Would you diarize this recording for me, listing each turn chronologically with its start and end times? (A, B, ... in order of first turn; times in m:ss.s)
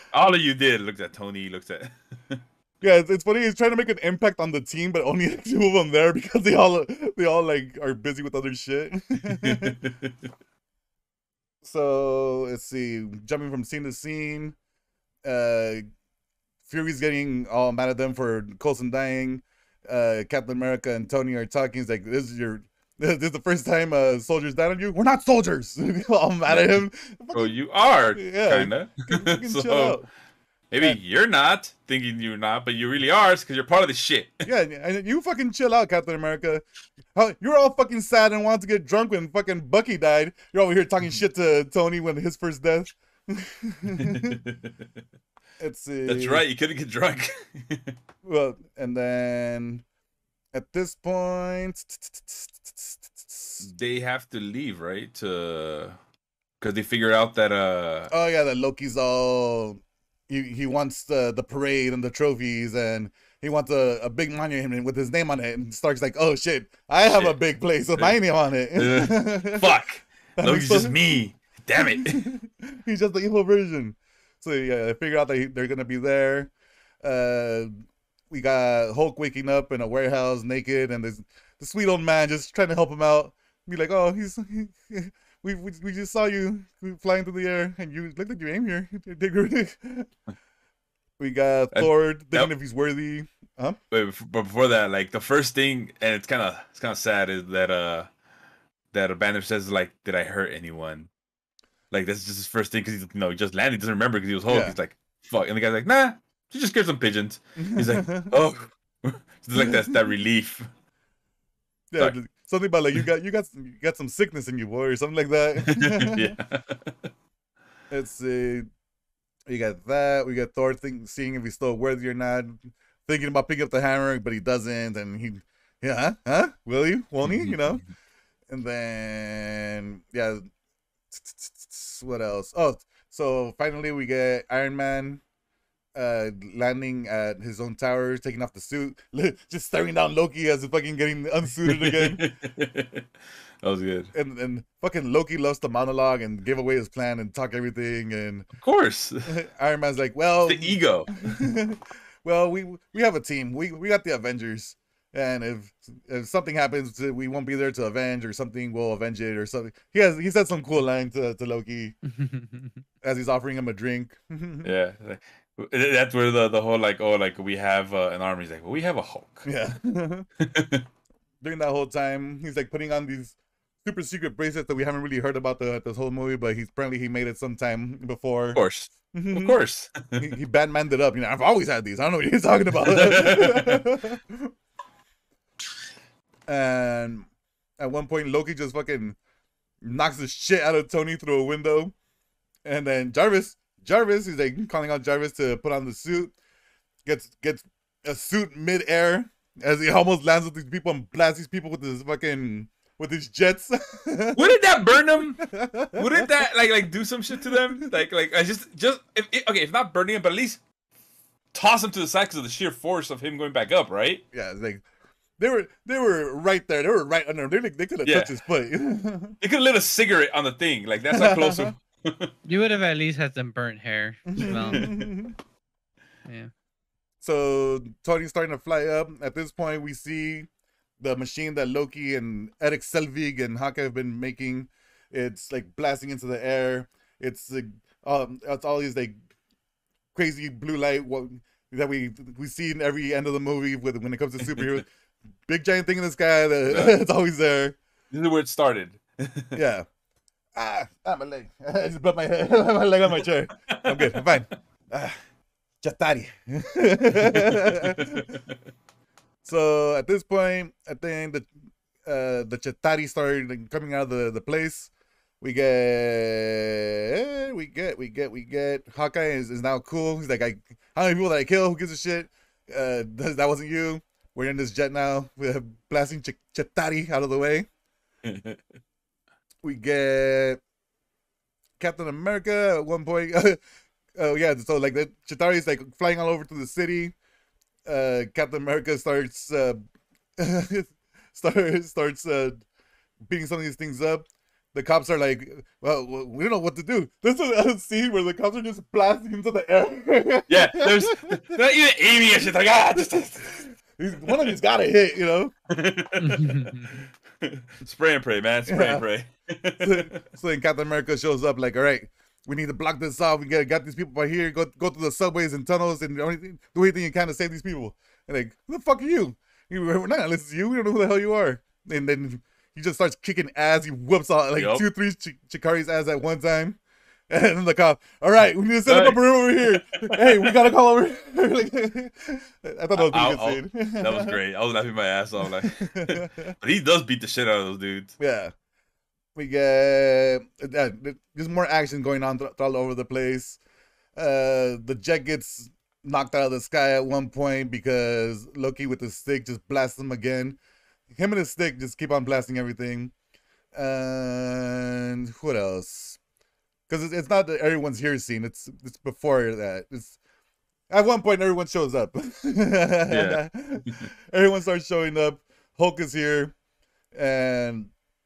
0:00.1-0:02.4 A
0:02.8-0:09.8 B
0:09.2-0:10.2 A
0:11.6-0:14.6 B
0:15.2-0:15.8 B
0:16.6-0:27.5 B
0:26.5-0:30.0 A
0:28.1-0:30.1 B
0:30.7-0:34.4 A
0:34.4-0:36.6 B
0:37.1-0:44.4 B
0:44.0-0:44.8 A
0:45.6-0:46.4 B
0:46.0-0:48.0 A
0:48.2-0:49.8 B
0:50.5-0:53.7 B
0:53.6-0:56.0 A
0:56.6-0:58.1 A
0:58.1-1:09.7 B
1:07.0-1:07.4 A
1:08.7-1:12.2 A
1:10.4-1:11.0 B
1:11.8-1:16.5 B
1:17.0-1:30.1 B
1:31.2-1:33.8 B
1:31.7-1:32.5 A
1:33.9-1:38.1 A
1:38.9-1:41.1 A
1:41.9-1:50.7 A
1:44.5-1:44.8 B
1:47.6-1:48.4 B
1:49.6-1:50.0 B
1:51.9-1:56.3 B
1:55.6-1:57.1 A
1:57.9-1:58.7 B
1:59.5-2:07.8 B
2:07.2-2:07.8 A
2:08.5-2:10.5 B
2:11.1-2:15.2 B
2:15.9-2:22.2 B
2:21.6-2:23.1 A
2:23.6-2:24.1 A
2:24.1-2:28.5 B
2:28.5-2:29.3 A
2:29.2-2:42.0 B
2:30.4-2:31.1 A
2:42.2-2:42.7 C
2:43.0-2:44.7 B
2:44.6-2:49.5 A
2:49.4-2:50.3 B
2:50.4-2:50.8 A
2:51.4-2:58.6 B
2:58.5-3:00.3 A
2:59.1-2:59.6 B
3:00.2-3:04.5 B
3:02.8-3:03.8 A
3:06.5-3:07.3 B
3:07.8-3:09.2 B
3:09.8-3:11.9 B
3:12.6-3:16.3 B
3:17.0-3:24.5 B
3:24.3-3:30.6 A
3:25.4-3:26.3 B
3:31.5-3:34.2 A
3:34.3-3:34.8 B
3:35.4-3:39.4 B
3:39.4-3:42.3 A
3:41.1-3:41.7 B
3:42.4-3:44.9 C
3:44.3-3:45.3 B
3:44.4-3:45.1 A
3:46.2-3:46.5 C
3:47.2-3:50.5 B
3:51.0-3:59.2 B
4:00.1-4:04.9 B
4:04.4-4:04.8 A
4:05.5-4:07.8 B
4:06.7-4:07.0 A
4:08.1-4:09.6 A
4:09.5-4:09.8 B
4:10.6-4:15.2 B
4:13.2-4:14.2 A
4:15.8-4:18.3 B
4:17.2-4:18.4 A
4:19.4-4:21.5 B
4:22.0-4:37.7 B
4:38.2-4:38.6 A
4:39.6-4:40.6 B
4:41.8-4:43.6 B
4:44.1-4:47.1 B
4:47.8-4:49.8 B
4:50.4-4:52.6 B
4:53.3-5:01.3 B
5:00.5-5:03.4 A
5:03.0-5:05.5 B
5:04.2-5:04.5 A
5:05.7-5:10.2 A
5:06.2-5:07.0 C
5:08.7-5:09.0 B
5:09.8-5:26.8 B
5:24.6-5:24.8 A
5:27.3-5:34.4 B
5:28.9-5:30.6 A
5:32.9-5:38.2 A
5:35.6-5:36.5 B
5:38.2-5:38.5 B
5:39.3-5:43.6 B
5:44.2-5:50.6 B
5:51.1-5:53.1 B
5:53.7-5:56.2 B
5:56.9-6:00.2 B
6:00.9-6:06.5 B
6:03.1-6:04.1 A
6:07.1-6:07.9 B